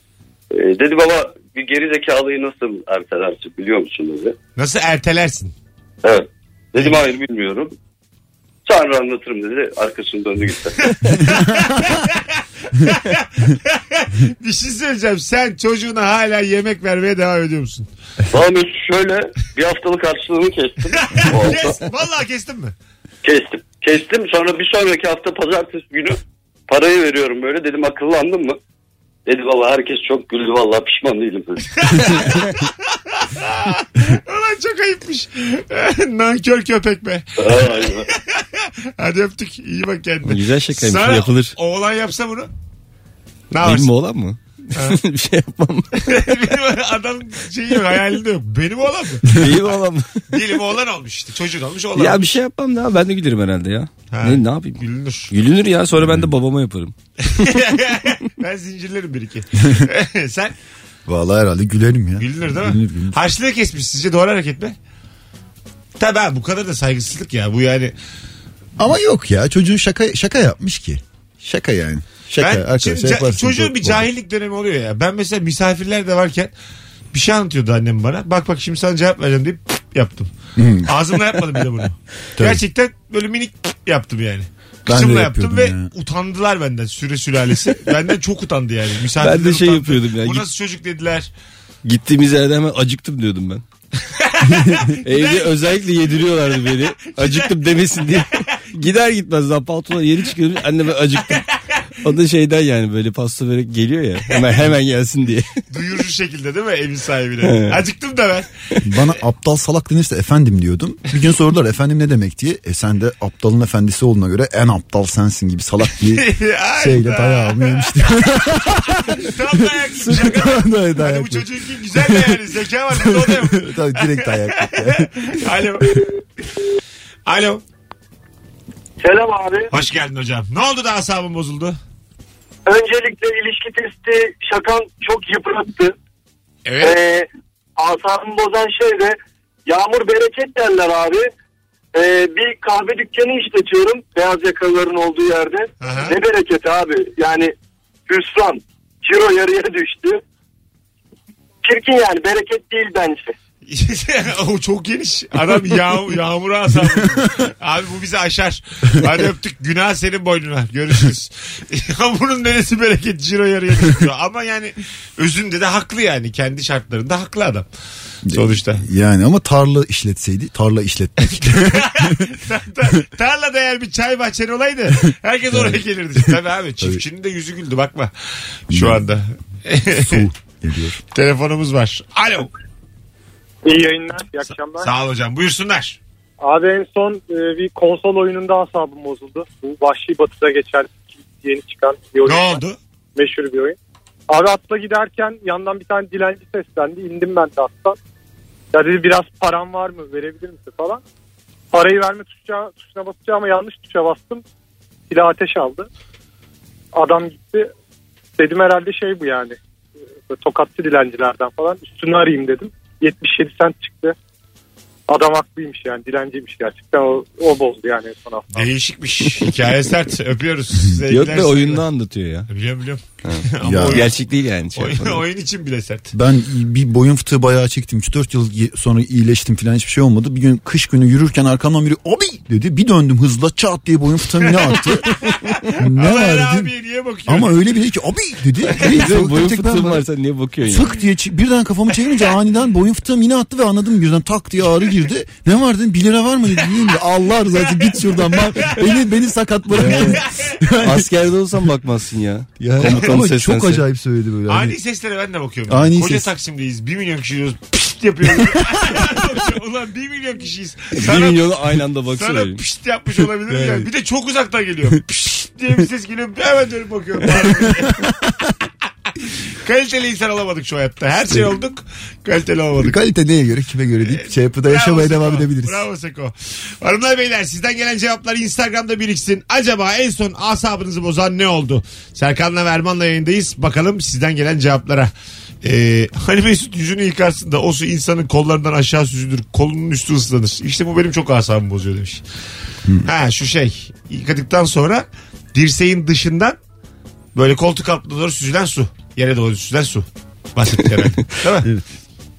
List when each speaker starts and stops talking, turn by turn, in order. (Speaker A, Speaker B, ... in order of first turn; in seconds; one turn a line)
Speaker A: 0.5-4.3
Speaker B: 4.5-5.5
Speaker A: 6.0-7.7
Speaker A: 8.7-10.9
Speaker B: 11.1-17.9
Speaker A: 18.3-21.8
Speaker B: 20.9-22.7
Speaker A: 23.2-28.6
Speaker A: 29.3-31.6
Speaker B: 31.8-32.4
Speaker B: 33.1-42.5
Speaker A: 37.4-38.1
Speaker C: 40.2-41.5
Speaker B: 43.5-43.9
Speaker C: 43.6-45.9
Speaker B: 44.7-45.0
Speaker B: 46.0-49.8
Speaker C: 49.3-50.3
Speaker B: 50.3-52.3
Speaker C: 51.9-56.9
Speaker B: 54.1-55.3
Speaker D: 56.0-56.3
Speaker B: 57.4-60.5
Speaker D: 61.1-63.1
Speaker B: 62.2-64.7
Speaker B: 66.0-67.9
Speaker D: 68.8-74.0
Speaker B: 72.4-76.5
Speaker B: 77.1-80.3
Speaker D: 80.5-80.9
Speaker B: 80.8-91.3
Speaker D: 84.9-85.9
Speaker C: 89.2-90.4
Speaker C: 91.8-93.6
Speaker B: 94.1-98.2
Speaker D: 94.5-94.8
Speaker C: 95.0-101.4
Speaker B: 101.3-101.8
Speaker C: 102.0-105.5
Speaker B: 104.3-104.6
Speaker B: 105.7-108.5
Speaker C: 107.4-107.8
Speaker D: 108.8-116.2
Speaker B: 116.0-118.1
Speaker D: 116.8-125.3
Speaker B: 118.9-126.0
Speaker B: 127.2-127.6
Speaker E: 129.0-129.7
Speaker B: 129.7-131.8
Speaker E: 132.7-135.9
Speaker B: 136.6-137.0
Speaker E: 136.8-137.3
Speaker E: 137.8-141.3
Speaker E: 141.9-147.5
Speaker B: 145.8-146.2
Speaker E: 148.1-150.2
Speaker E: 151.6-153.3
Speaker B: 153.7-167.7
Speaker D: 168.2-172.3
Speaker B: 168.3-168.8
Speaker B: 171.3-180.3
Speaker D: 175.5-177.0
Speaker D: 178.7-179.0
Speaker D: 180.0-181.0
Speaker B: 181.1-182.5
Speaker F: 183.6-184.9
Speaker B: 184.8-186.0
Speaker F: 186.4-192.6
Speaker B: 192.2-192.8
Speaker F: 193.2-193.8
Speaker F: 194.3-198.0
Speaker F: 198.7-201.0
Speaker F: 201.7-204.4
Speaker F: 205.1-205.9
Speaker F: 206.9-207.7
Speaker F: 208.4-209.6
Speaker F: 210.3-214.1
Speaker F: 215.1-218.7
Speaker B: 218.5-221.8
Speaker C: 221.1-222.5
Speaker B: 222.5-224.1
Speaker C: 223.2-225.2
Speaker D: 223.6-224.0
Speaker B: 224.7-226.1
Speaker D: 226.1-235.2
Speaker B: 234.5-234.8
Speaker B: 235.4-237.6
Speaker D: 235.7-236.7
Speaker D: 237.3-240.0
Speaker C: 238.8-240.9
Speaker D: 240.6-251.1
Speaker B: 247.7-248.9
Speaker C: 249.7-250.2
Speaker B: 250.1-250.6
Speaker C: 250.8-253.8
Speaker D: 252.6-254.8
Speaker B: 254.5-261.6
Speaker D: 255.7-256.3
Speaker C: 260.9-262.6
Speaker B: 262.1-268.1
Speaker D: 263.4-263.9
Speaker B: 269.2-273.0
Speaker D: 272.8-275.8
Speaker B: 274.0-285.1
Speaker B: 285.6-292.2
Speaker B: 293.0-296.6
Speaker B: 297.3-301.7